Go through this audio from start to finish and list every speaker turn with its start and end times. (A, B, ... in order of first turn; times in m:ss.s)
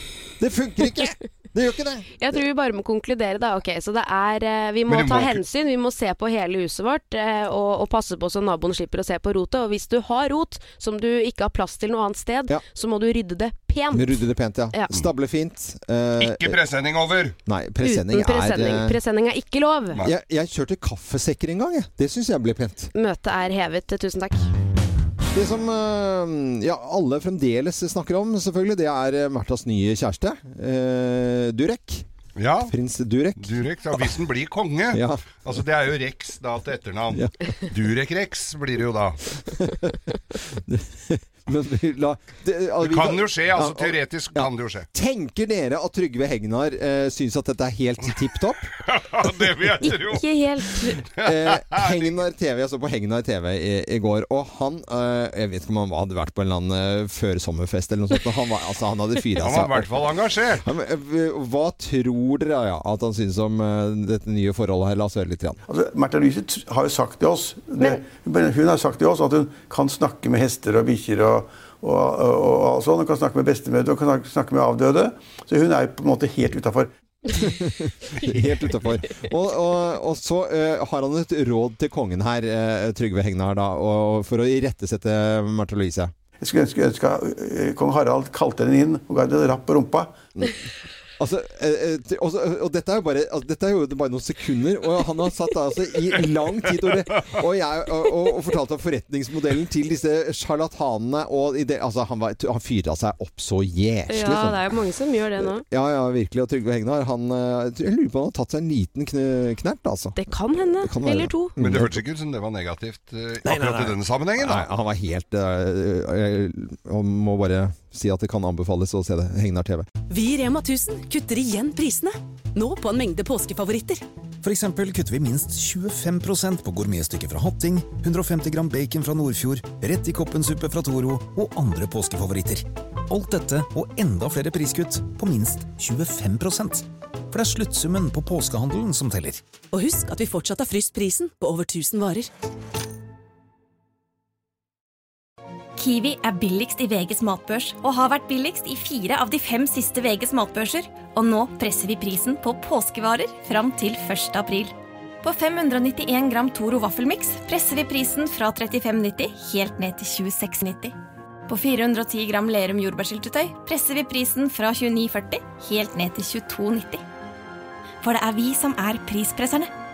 0:00.4-0:02.1 A
0:02.2-0:14.2 B
0:04.9-0:05.4 C
0:13.9-0:16.6 A
0:16.2-0:17.4 C
0:17.4-0:19.0 A
0:17.8-0:20.0 B
0:20.0-0:22.9 A
0:22.9-0:24.4 B
0:25.3-0:32.0 A
0:32.4-0:32.7 C
0:32.7-0:34.1 A
0:33.4-0:39.2 C
0:34.9-0:35.3 A
0:39.6-0:40.0 A
0:40.5-0:48.7 A
0:42.8-0:44.9 C
0:48.8-0:50.2 C
0:49.8-0:51.0 B
0:51.1-1:05.6 A
0:51.2-0:52.1 C
0:59.4-1:00.6 C
1:05.7-1:16.9 D
1:17.3-1:26.1 A
1:26.4-1:30.3 D
1:30.4-1:30.7 A
1:31.2-1:44.6 A
1:44.1-1:45.6 B
1:45.6-1:50.2 A
1:50.2-1:51.5 B
1:50.8-1:52.0 A
1:51.6-1:54.7 C
1:53.4-1:59.8 A
2:00.1-2:04.0 E
2:04.4-2:19.4 F
2:19.7-2:22.3 E
2:25.8-2:40.9 G
2:41.5-2:47.0 G
2:48.0-2:49.7 G